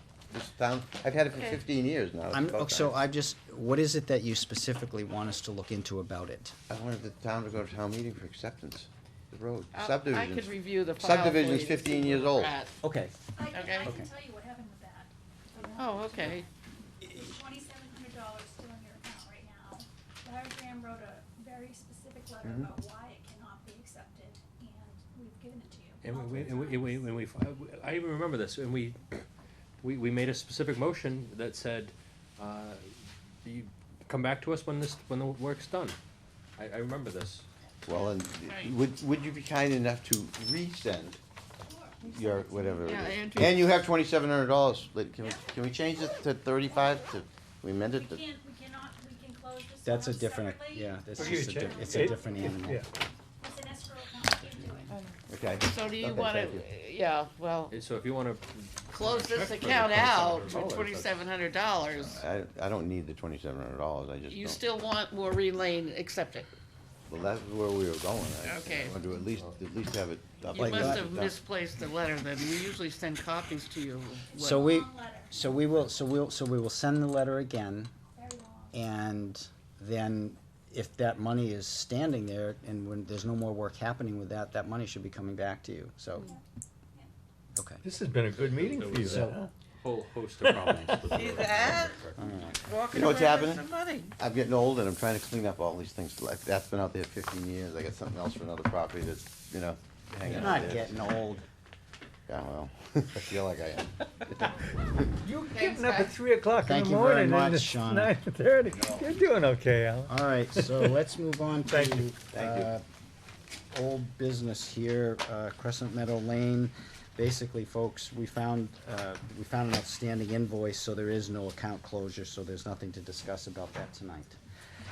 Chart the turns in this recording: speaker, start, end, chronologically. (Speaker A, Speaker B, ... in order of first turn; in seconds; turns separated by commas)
Speaker A: 0.3-3.0, Speaker B: 1.3-1.6, Speaker C: 2.3-6.6, Speaker A: 6.7-12.6, Speaker B: 9.7-12.7, Speaker C: 12.8-13.1, Speaker D: 13.3-16.4, Speaker B: 13.5-13.9, Speaker C: 13.8-14.1, Speaker B: 15.8-16.4, Speaker D: 17.0-27.1, Speaker A: 22.4-22.7, Speaker E: 26.0-29.2, Speaker E: 29.8-32.9, Speaker E: 33.4-36.0, Speaker E: 36.6-37.5, Speaker A: 37.8-41.2, Speaker D: 41.6-42.9, Speaker A: 42.0-48.2, Speaker B: 42.8-43.6, Speaker D: 45.2-45.5, Speaker D: 47.9-52.7, Speaker C: 49.8-52.9, Speaker F: 51.1-52.9, Speaker D: 53.4-55.0, Speaker B: 54.9-57.7, Speaker A: 55.3-56.6, Speaker E: 57.7-61.2, Speaker B: 58.9-62.2, Speaker A: 62.0-64.6, Speaker B: 64.3-66.5, Speaker A: 67.1-71.4, Speaker B: 68.4-69.0, Speaker B: 70.5-74.7, Speaker C: 70.6-71.0, Speaker D: 74.2-75.5, Speaker C: 74.4-77.9, Speaker D: 78.1-78.8, Speaker C: 78.7-86.3, Speaker C: 87.5-87.8, Speaker F: 87.8-89.5, Speaker E: 88.5-92.3, Speaker C: 89.0-89.4, Speaker F: 90.4-91.1, Speaker B: 91.1-92.0, Speaker C: 92.2-92.7, Speaker B: 92.6-94.1, Speaker A: 92.9-93.6, Speaker A: 94.2-101.0, Speaker C: 100.2-101.5, Speaker A: 102.3-104.0, Speaker F: 105.2-111.0, Speaker B: 105.4-106.2, Speaker C: 106.6-108.1, Speaker A: 108.8-109.0, Speaker C: 110.1-112.8, Speaker F: 111.7-112.1, Speaker A: 112.3-112.7, Speaker C: 113.7-124.4